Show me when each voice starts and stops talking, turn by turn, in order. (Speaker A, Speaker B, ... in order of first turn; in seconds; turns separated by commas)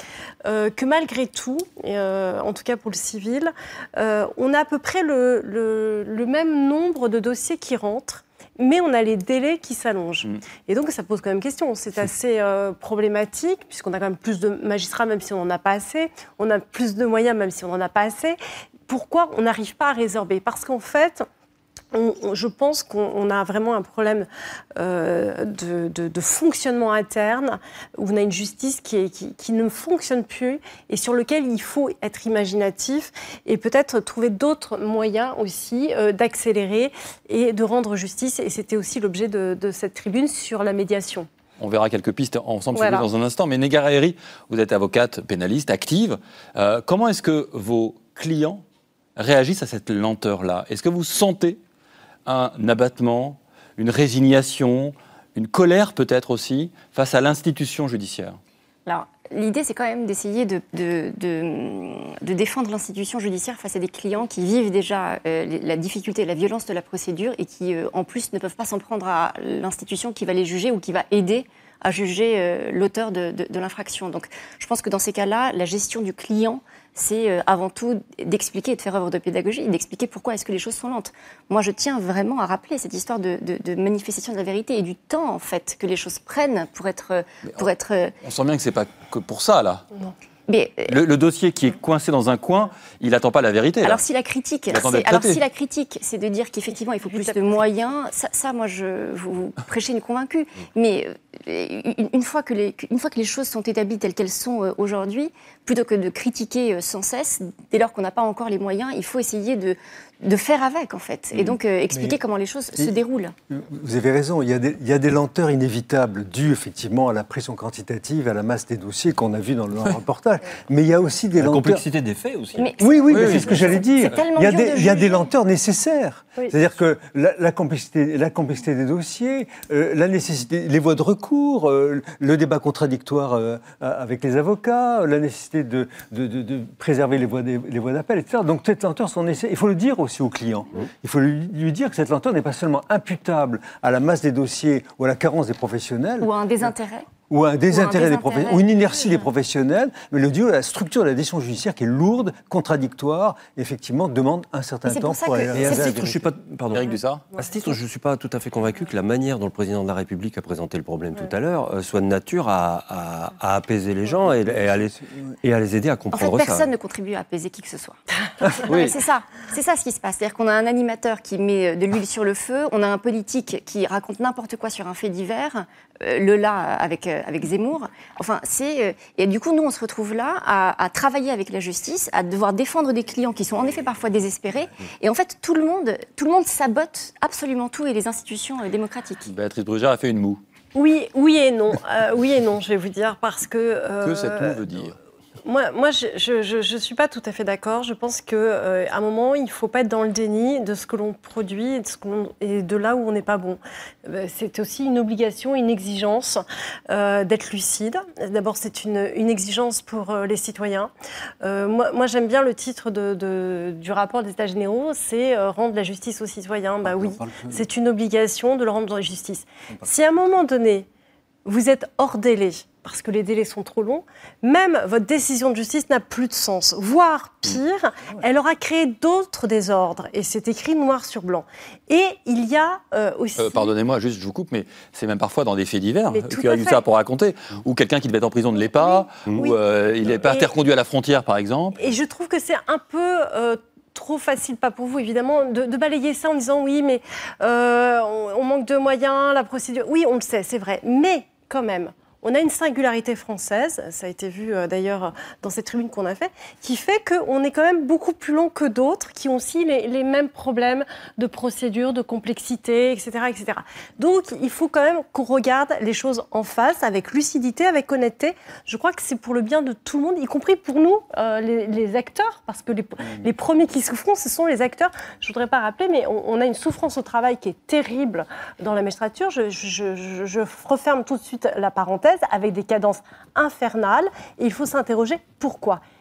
Speaker A: 0.4-21.2, Speaker A: 21.9-41.3, Speaker B: 41.6-48.6, Speaker A: 42.7-43.1, Speaker B: 49.2-51.6, Speaker B: 52.2-58.4, Speaker C: 58.9-88.1, Speaker B: 88.2-89.8, Speaker C: 90.5-91.0, Speaker B: 90.9-94.0, Speaker C: 93.8-113.3, Speaker B: 94.7-95.4, Speaker A: 97.1-97.4, Speaker D: 111.9-112.2, Speaker D: 113.5-121.8, Speaker E: 121.4-123.8, Speaker C: 122.5-125.3, Speaker D: 122.8-146.3, Speaker B: 123.1-123.5, Speaker C: 146.2-147.1, Speaker D: 147.3-156.3, Speaker C: 147.7-149.2, Speaker C: 154.8-156.1, Speaker E: 155.5-166.7, Speaker B: 156.7-157.2, Speaker D: 164.2-165.3, Speaker C: 166.1-168.0, Speaker C: 168.5-189.3, Speaker B: 189.2-190.4, Speaker A: 190.7-194.6, Speaker B: 194.0-195.0, Speaker A: 195.4-220.9, Speaker D: 216.8-217.6, Speaker A: 221.4-233.7, Speaker B: 233.4-241.9, Speaker A: 236.1-236.8, Speaker A: 238.8-239.6, Speaker A: 240.2-240.5, Speaker A: 241.8-285.8